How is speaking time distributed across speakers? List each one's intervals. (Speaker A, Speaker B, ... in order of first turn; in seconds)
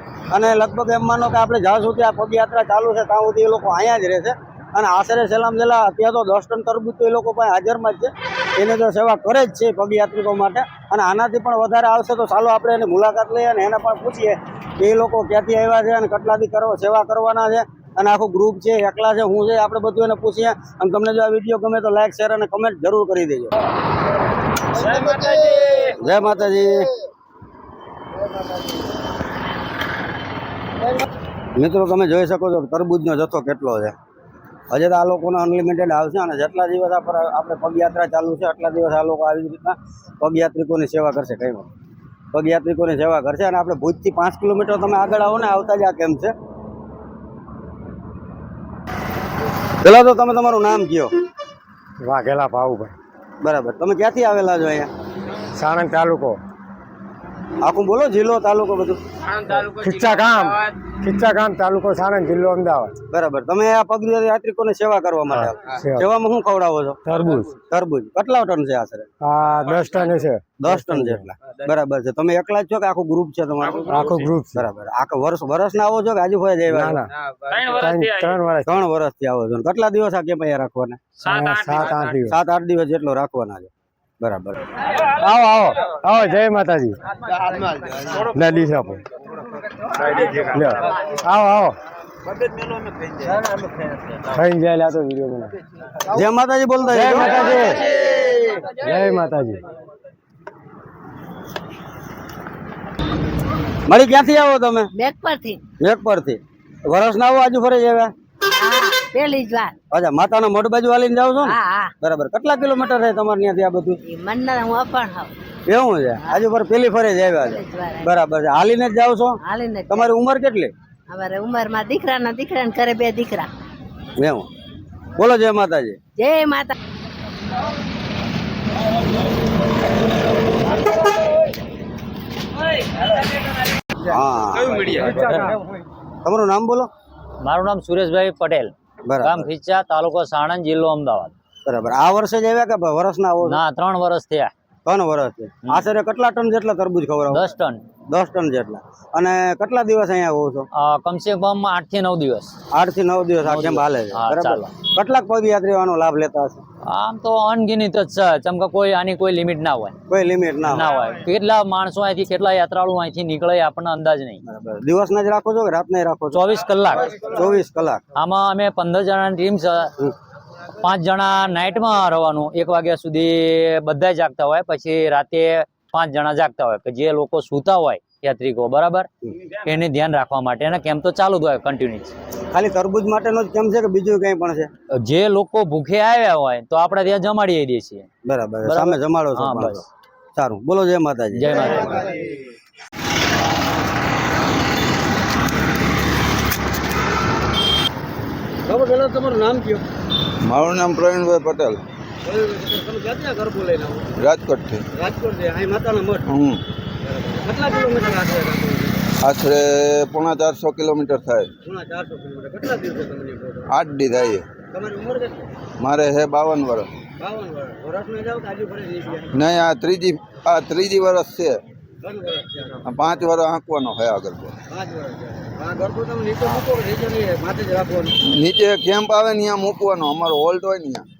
Speaker A: 0.3-23.5, 25.7-26.9, 31.6-33.9, 34.7-41.7, 42.3-46.3, 49.8-51.1, 53.4-54.9, 57.6-59.0, 63.1-67.0, 67.7-69.1, 70.6-77.0, 78.6-81.0, 82.2-84.6, 96.1-98.0, 103.9-104.9, 105.8-108.1, 109.9-114.0, 115.7-120.7, 124.2-124.5, 125.2-126.0, 134.0-135.3, 136.2-136.9, 139.1-139.5, 141.7-143.6, 144.8-147.5, 148.1-150.7, 152.7-156.6, 160.1-160.9, 164.4-166.4, 167.1-168.0, 182.5-184.7, 188.2-191.7, 198.7-199.8, 202.2-204.1, 204.9-206.3, 207.0-209.1, 211.6-213.7, 214.7-215.5, 217.2-219.3, 222.0-222.8, 224.7-228.1
Speaker B: 52.0-52.9, 55.5-56.4, 59.6-62.9, 65.3-66.0, 67.0-67.5, 69.2-71.3, 73.8-74.7, 76.7-77.1, 77.7-78.8, 81.2-82.4, 85.1-87.0, 88.1-89.0, 90.3-91.8, 94.2-95.5, 96.9-97.9, 98.7-99.6, 135.1-135.5
Speaker C: 77.5-78.3, 81.2-82.0, 137.4-141.3, 143.4-144.5, 147.3-147.8, 150.7-152.6, 153.4-154.7, 156.9-160.0, 160.6-164.4, 166.3-167.4, 168.1-169.9, 170.8-182.1, 185.0-188.1, 188.6-189.8, 191.3-192.0
Speaker D: 104.9-105.6, 108.4-109.8, 111.4-111.9, 114.0-115.3, 117.4-118.1, 119.4-120.1, 121.1-123.5, 126.2-126.7
Speaker E: 200.4-201.8, 204.2-204.8, 206.3-206.6, 209.2-211.5, 213.7-214.5, 215.8-216.9, 219.3-221.6, 222.8-224.5, 228.2-231.1